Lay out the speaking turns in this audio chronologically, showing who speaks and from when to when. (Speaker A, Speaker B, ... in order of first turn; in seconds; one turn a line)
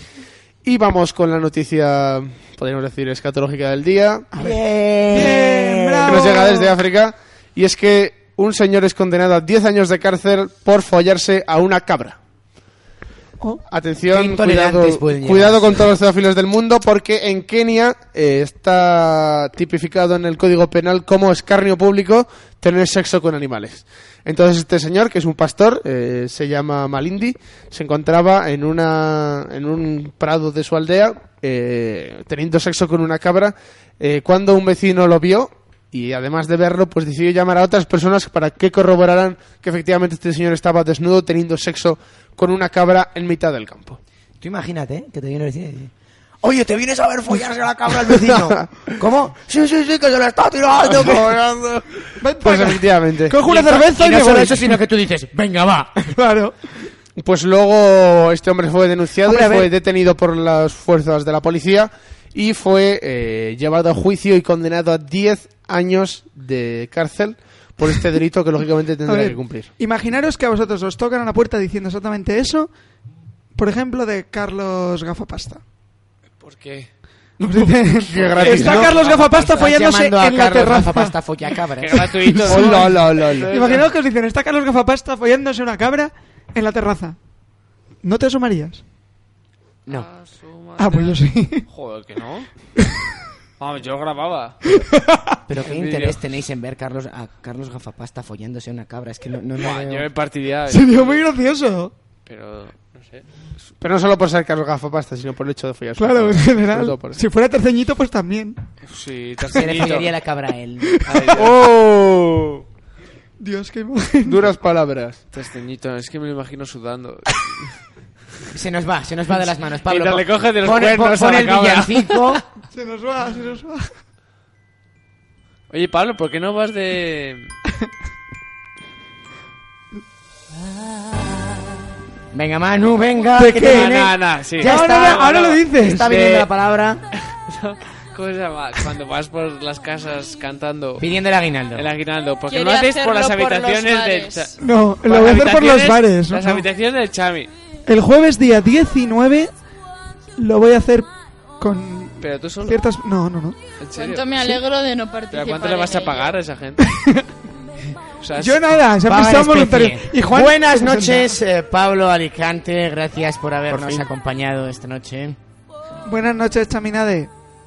Speaker A: 0.6-4.3
Speaker B: 4.3-6.3
Speaker C: 5.1-6.7
Speaker A: 6.0-12.2
Speaker A: 13.7-44.0
Speaker B: 14.1-15.9
Speaker B: 44.4-51.3
Speaker A: 48.3-48.5
Speaker A: 50.9-51.8
Speaker C: 52.2-54.8
Speaker A: 52.4-53.4
Speaker B: 53.3-56.1
Speaker C: 56.1-56.5
Speaker A: 57.2-69.7
Speaker B: 59.3-59.6
Speaker C: 69.0-72.7
Speaker C: 73.5-75.6
Speaker D: 76.4-76.9
Speaker A: 77.4-78.9
Speaker C: 77.4-81.1
Speaker D: 78.2-79.7
Speaker B: 78.6-82.5
Speaker D: 81.8-83.9
Speaker C: 82.4-87.2
Speaker A: 82.5-83.5
Speaker C: 88.0-88.8
Speaker D: 89.9-92.5
Speaker C: 90.8-91.6
Speaker D: 93.6-94.6
Speaker C: 94.9-95.3
Speaker B: 95.5-100.1
Speaker D: 95.6-96.2
Speaker D: 99.6-101.2
Speaker C: 100.7-101.9
Speaker D: 102.3-103.2
Speaker A: 103.8-107.2
Speaker C: 106.0-108.6
Speaker D: 108.8-110.1
Speaker B: 109.5-111.0
Speaker C: 110.9-111.5
Speaker D: 111.0-111.5
Speaker A: 111.3-112.6
Speaker C: 113.4-114.4
Speaker A: 114.2-115.2
Speaker D: 115.3-117.8
Speaker B: 118.5-122.4
Speaker D: 119.9-122.4
Speaker C: 122.7-123.9
Speaker D: 125.7-127.5
Speaker B: 132.3-137.0
Speaker C: 133.3-134.0
Speaker D: 133.5-136.5
Speaker C: 134.6-136.1
Speaker D: 137.3-141.0
Speaker B: 141.0-141.9
Speaker D: 141.7-144.5
Speaker E: 142.5-144.6
Speaker C: 144.6-146.6
Speaker D: 145.0-147.5
Speaker C: 147.9-149.5
Speaker C: 150.3-153.6
Speaker D: 152.2-152.8
Speaker D: 153.8-154.3
Speaker E: 153.9-156.3
Speaker D: 155.3-156.9
Speaker D: 158.2-158.8
Speaker C: 158.4-161.4
Speaker B: 159.0-165.4
Speaker A: 163.7-164.1
Speaker C: 166.1-167.3